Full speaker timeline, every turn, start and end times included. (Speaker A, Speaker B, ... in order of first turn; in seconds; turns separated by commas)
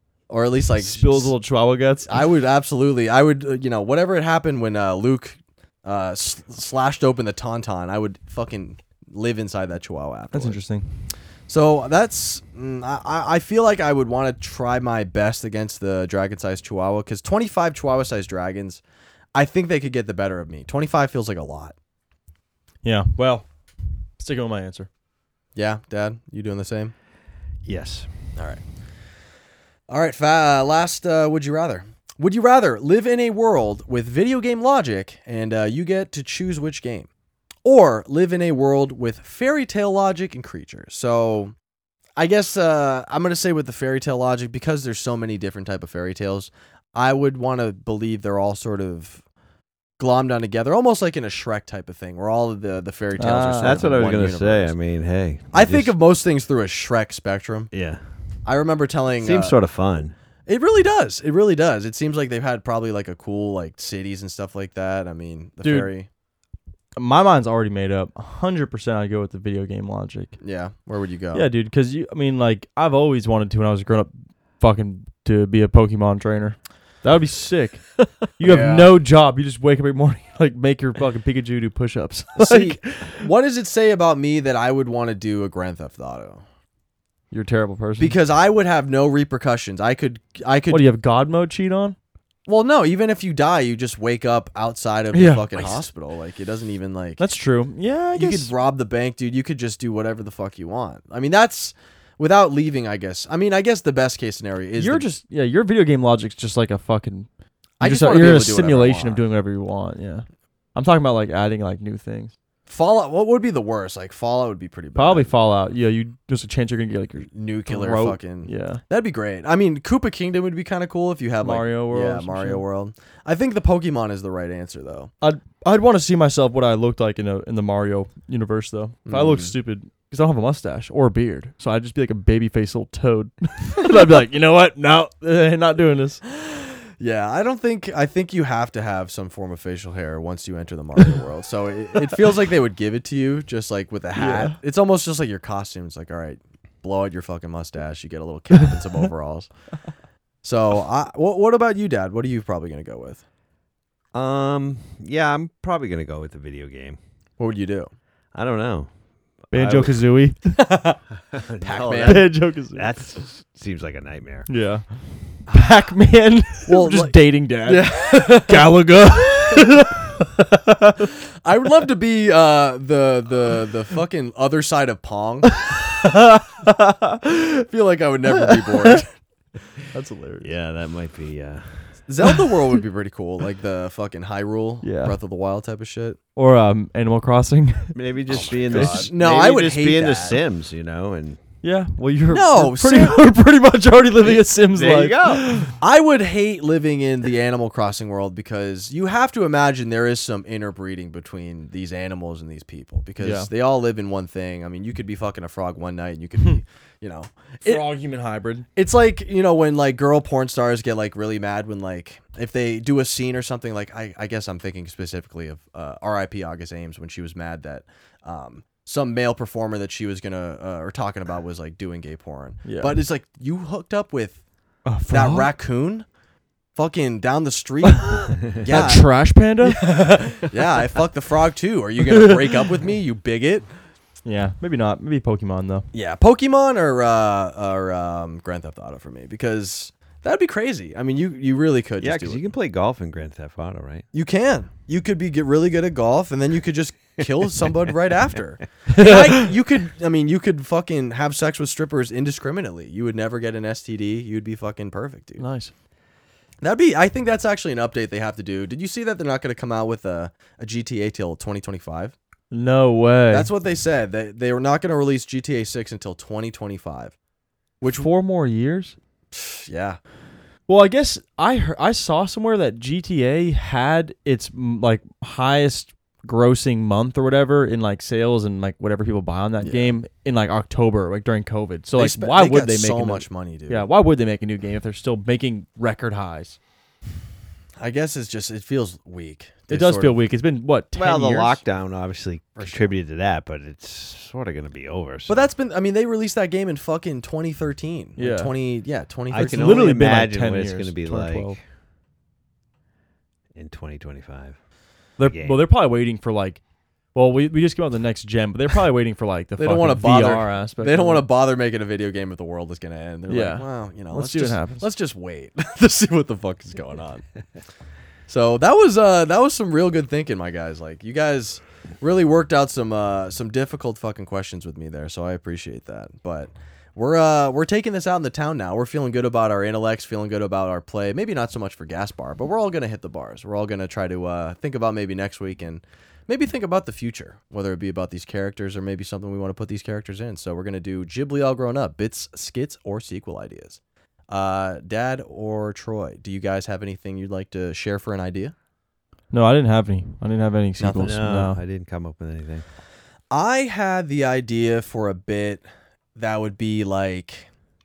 Speaker A: 0.3-1.3, Speaker B: 0.8-2.2, Speaker A: 2.1-10.6, Speaker B: 10.3-10.9, Speaker A: 11.5-18.8, Speaker A: 19.3-21.7, Speaker B: 22.8-23.5, Speaker B: 24.2-24.9, Speaker A: 25.5-26.9, Speaker C: 27.6-28.1, Speaker A: 28.4-28.6, Speaker A: 29.9-37.1, Speaker A: 37.6-41.5, Speaker A: 42.2-49.2, Speaker A: 50.0-54.8, Speaker B: 53.2-53.8, Speaker C: 53.6-56.0, Speaker A: 55.5-57.7, Speaker C: 57.7-58.0, Speaker A: 58.4-59.6, Speaker C: 59.2-60.1, Speaker A: 60.5-66.1, Speaker B: 65.6-65.9, Speaker B: 67.0-70.4, Speaker A: 70.4-71.5, Speaker B: 71.3-83.2, Speaker A: 78.4-78.9, Speaker A: 82.3-86.4, Speaker B: 87.3-88.1, Speaker A: 88.0-90.8, Speaker B: 90.7-92.0, Speaker A: 92.5-97.2, Speaker B: 95.1-95.8, Speaker B: 97.2-98.5, Speaker A: 98.1-105.0, Speaker B: 104.8-107.3, Speaker A: 107.8-109.2, Speaker B: 107.8-112.3, Speaker A: 112.7-115.3, Speaker B: 115.0-118.8, Speaker A: 117.3-125.1, Speaker B: 121.4-122.6, Speaker B: 125.2-136.2, Speaker A: 129.1-129.5, Speaker A: 136.4-149.5, Speaker B: 144.2-144.6, Speaker A: 150.4-153.2, Speaker C: 154.1-157.0, Speaker A: 157.4-157.9, Speaker C: 158.3-158.9, Speaker C: 159.4-160.0, Speaker B: 159.5-160.8, Speaker C: 161.3-164.5, Speaker A: 161.6-162.3, Speaker B: 162.0-162.9, Speaker B: 164.5-164.8, Speaker B: 165.5-171.1, Speaker A: 166.7-168.7, Speaker A: 171.4-175.6, Speaker B: 175.6-177.4, Speaker A: 177.6-179.1, Speaker B: 178.6-179.0, Speaker B: 179.9-180.5, Speaker C: 180.4-181.9, Speaker A: 182.1-186.2, Speaker B: 184.8-185.1, Speaker B: 186.3-187.9, Speaker C: 187.9-191.4, Speaker A: 188.3-190.4, Speaker B: 188.5-189.1, Speaker B: 191.6-195.8, Speaker A: 192.3-193.2, Speaker C: 194.3-195.5, Speaker A: 195.8-207.9, Speaker B: 203.2-203.5, Speaker B: 207.6-208.7, Speaker A: 208.7-224.4, Speaker B: 222.6-223.0, Speaker B: 224.8-225.5, Speaker A: 225.1-226.1, Speaker A: 226.7-229.1, Speaker B: 227.9-229.9, Speaker A: 229.6-233.7, Speaker B: 234.2-235.9, Speaker A: 235.9-242.5, Speaker C: 242.0-244.1, Speaker A: 244.1-255.4, Speaker B: 248.9-249.4, Speaker B: 255.4-255.7, Speaker A: 256.6-262.1, Speaker B: 262.5-263.5, Speaker A: 263.3-267.1, Speaker A: 267.8-268.1, Speaker B: 267.8-268.9, Speaker A: 269.3-270.0, Speaker B: 270.7-286.6, Speaker A: 279.6-279.9, Speaker A: 282.0-283.9, Speaker A: 287.8-290.2, Speaker B: 289.7-291.6, Speaker C: 290.9-295.5, Speaker A: 292.6-292.9, Speaker A: 295.3-299.9, Speaker B: 298.2-298.5, Speaker C: 299.3-301.6, Speaker B: 299.4-301.6, Speaker C: 303.5-304.6, Speaker B: 305.2-306.6, Speaker C: 305.2-305.6, Speaker B: 307.1-311.3, Speaker A: 309.6-317.2, Speaker B: 313.3-314.9, Speaker A: 318.3-348.5, Speaker B: 349.3-351.6, Speaker A: 350.8-351.1, Speaker C: 350.9-352.6, Speaker A: 353.3-355.6, Speaker A: 356.1-357.5